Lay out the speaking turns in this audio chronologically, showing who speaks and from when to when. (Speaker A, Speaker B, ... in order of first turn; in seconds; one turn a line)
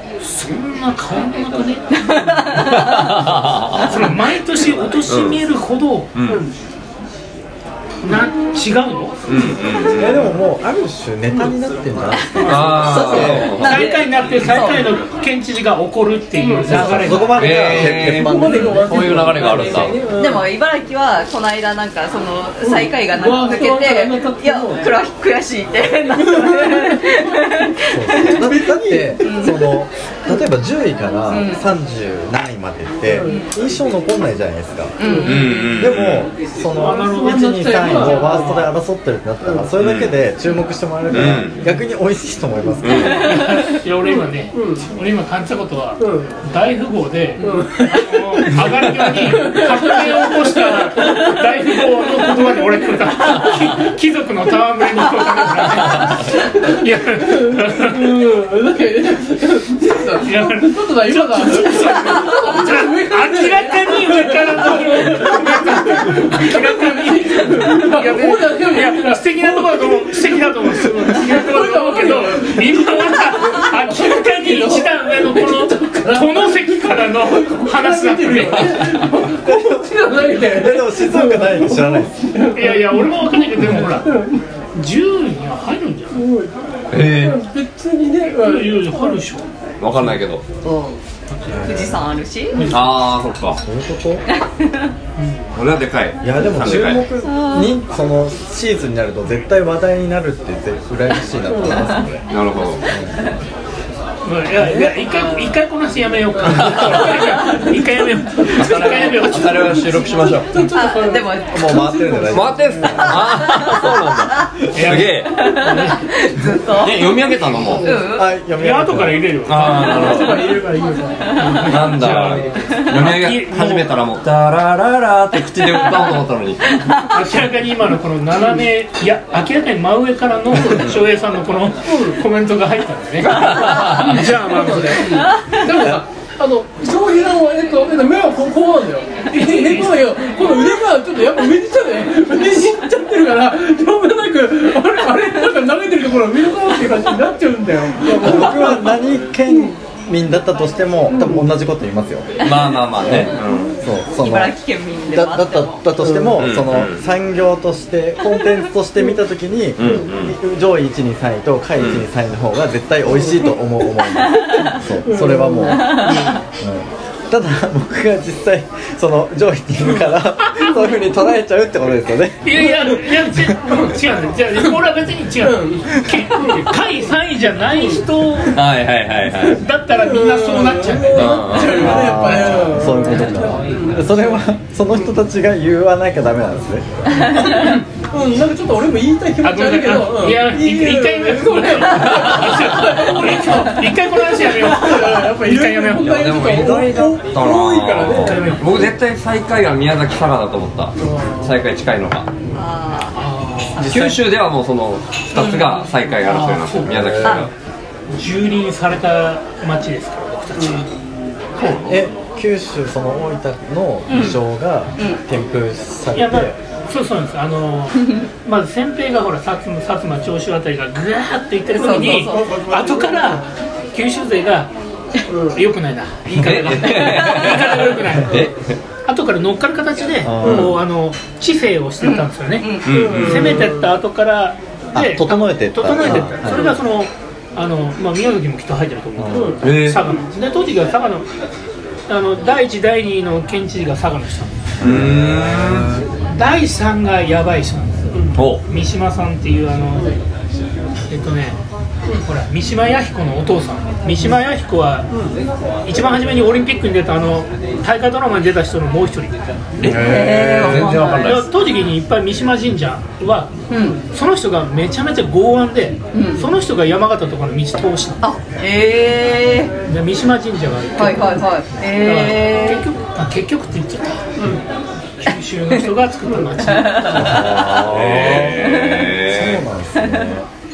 Speaker A: 0.2-2.7
Speaker B: 2.1-3.2
Speaker C: 2.6-4.1
Speaker A: 3.8-6.1
Speaker C: 5.1-5.4
Speaker C: 6.2-6.4
Speaker D: 6.3-6.5
Speaker A: 8.0-9.2
Speaker C: 9.3-10.3
Speaker E: 9.9-13.5
Speaker B: 12.3-15.0
Speaker C: 12.4-14.8
Speaker A: 13.6-17.6
Speaker D: 16.4-20.5
Speaker E: 16.7-19.8
Speaker C: 16.9-20.0
Speaker B: 20.1-28.5
Speaker D: 22.6-24.9
Speaker D: 26.1-27.6
Speaker E: 27.9-35.0
Speaker D: 28.2-29.6
Speaker B: 29.2-29.7
Speaker B: 31.3-31.6
Speaker D: 33.1-33.5
Speaker B: 33.3-33.5
Speaker B: 35.0-35.8
Speaker D: 35.0-35.7
Speaker C: 35.2-36.3
Speaker E: 35.8-43.3
Speaker D: 36.8-38.7
Speaker A: 36.8-38.7
Speaker D: 39.4-39.7
Speaker C: 39.8-40.1
Speaker C: 41.1-41.6
Speaker C: 42.8-43.4
Speaker B: 43.0-43.7
Speaker A: 43.2-58.1
Speaker D: 44.1-44.9
Speaker D: 46.0-46.4
Speaker B: 47.4-47.7
Speaker D: 47.4-53.8
Speaker D: 55.9-84.4
Speaker A: 60.2-79.0
Speaker E: 79.4-82.2
Speaker A: 82.5-84.2
Speaker A: 84.8-86.2
Speaker D: 86.1-89.2
Speaker C: 86.9-87.4
Speaker A: 88.4-89.5
Speaker C: 89.8-90.4
Speaker A: 91.3-91.9
Speaker E: 91.5-92.1
Speaker B: 91.6-92.7
Speaker C: 92.7-93.6
Speaker E: 93.6-94.2
Speaker B: 94.3-95.0
Speaker A: 95.2-95.5
Speaker C: 95.5-97.0
Speaker E: 96.2-102.1
Speaker B: 97.2-97.7
Speaker D: 101.5-101.9
Speaker C: 102.3-102.8
Speaker E: 102.9-103.2
Speaker A: 104.2-109.6
Speaker D: 104.6-105.6
Speaker D: 106.3-113.1
Speaker C: 106.6-107.0
Speaker C: 108.5-110.7
Speaker B: 110.7-111.8
Speaker E: 111.5-113.2
Speaker C: 112.3-115.3
Speaker B: 113.2-113.9
Speaker A: 114.7-116.0
Speaker B: 114.8-118.3
Speaker C: 116.8-117.9
Speaker D: 117.6-118.1
Speaker E: 118.1-119.3
Speaker A: 118.5-120.3
Speaker C: 119.5-120.6
Speaker D: 119.6-122.7
Speaker B: 121.3-121.8
Speaker A: 121.4-123.9
Speaker C: 121.6-126.9
Speaker B: 122.6-123.1
Speaker B: 125.3-127.2
Speaker A: 127.1-135.3
Speaker C: 130.6-131.0
Speaker D: 131.8-132.2
Speaker C: 133.3-134.2
Speaker B: 133.3-134.0
Speaker D: 133.9-149.8
Speaker B: 135.3-135.7
Speaker A: 139.3-140.1
Speaker E: 148.0-152.3
Speaker D: 151.1-151.5
Speaker B: 152.4-152.8
Speaker C: 152.4-153.8
Speaker E: 153.0-154.6
Speaker B: 154.2-155.9
Speaker E: 155.1-172.5
Speaker D: 156.0-156.4
Speaker C: 156.4-157.0
Speaker C: 159.8-160.4
Speaker C: 161.8-162.1
Speaker D: 163.2-163.4
Speaker B: 164.2-164.8
Speaker D: 164.8-166.4
Speaker B: 165.7-166.4
Speaker D: 170.0-171.0
Speaker A: 172.4-178.6
Speaker D: 172.6-173.0
Speaker D: 173.7-173.9
Speaker D: 175.4-176.8
Speaker D: 177.6-178.0
Speaker C: 178.5-179.6
Speaker A: 179.5-181.7
Speaker D: 180.0-184.4
Speaker C: 181.1-181.9
Speaker E: 181.8-187.4
Speaker A: 182.9-184.0
Speaker D: 187.4-198.7
Speaker A: 189.4-196.2
Speaker C: 196.0-202.3
Speaker A: 198.2-198.8
Speaker D: 201.0-201.6
Speaker B: 202.6-203.2
Speaker A: 203.2-204.2
Speaker C: 203.8-207.5
Speaker B: 205.3-205.9
Speaker A: 206.3-206.9
Speaker E: 206.8-207.5
Speaker B: 207.2-207.5
Speaker A: 208.1-210.9
Speaker D: 210.6-210.9
Speaker B: 211.6-211.9
Speaker E: 211.9-216.6
Speaker B: 214.1-214.4
Speaker A: 216.1-224.7
Speaker B: 218.0-218.3
Speaker B: 221.7-222.6
Speaker D: 221.8-223.5
Speaker D: 225.3-225.6
Speaker A: 225.5-228.5
Speaker C: 226.4-228.8
Speaker B: 226.9-227.6
Speaker A: 229.1-241.3
Speaker E: 230.2-230.8
Speaker C: 230.4-230.7
Speaker B: 232.0-233.1
Speaker C: 232.8-233.7
Speaker D: 232.9-233.9
Speaker E: 234.9-236.6
Speaker D: 236.4-236.8
Speaker E: 239.2-239.6
Speaker D: 239.3-239.6
Speaker C: 239.6-240.0
Speaker A: 242.1-244.6
Speaker C: 244.8-246.0
Speaker E: 244.8-246.1
Speaker A: 246.3-250.2
Speaker D: 248.1-248.4
Speaker C: 248.3-248.6
Speaker D: 249.9-250.2
Speaker A: 251.1-251.6
Speaker A: 252.2-255.1
Speaker D: 254.1-254.4
Speaker D: 255.1-255.4
Speaker A: 255.9-259.6
Speaker E: 259.8-261.2
Speaker C: 259.8-261.5
Speaker B: 259.8-261.4
Speaker A: 261.0-263.5
Speaker B: 263.7-264.0
Speaker A: 264.1-268.2
Speaker B: 266.1-266.5
Speaker B: 268.2-269.8
Speaker A: 269.9-274.5
Speaker B: 271.0-272.8
Speaker D: 274.4-274.6
Speaker A: 275.2-277.3
Speaker B: 276.6-277.8
Speaker E: 277.1-280.5
Speaker C: 277.6-279.6
Speaker B: 278.4-279.2
Speaker B: 280.0-280.3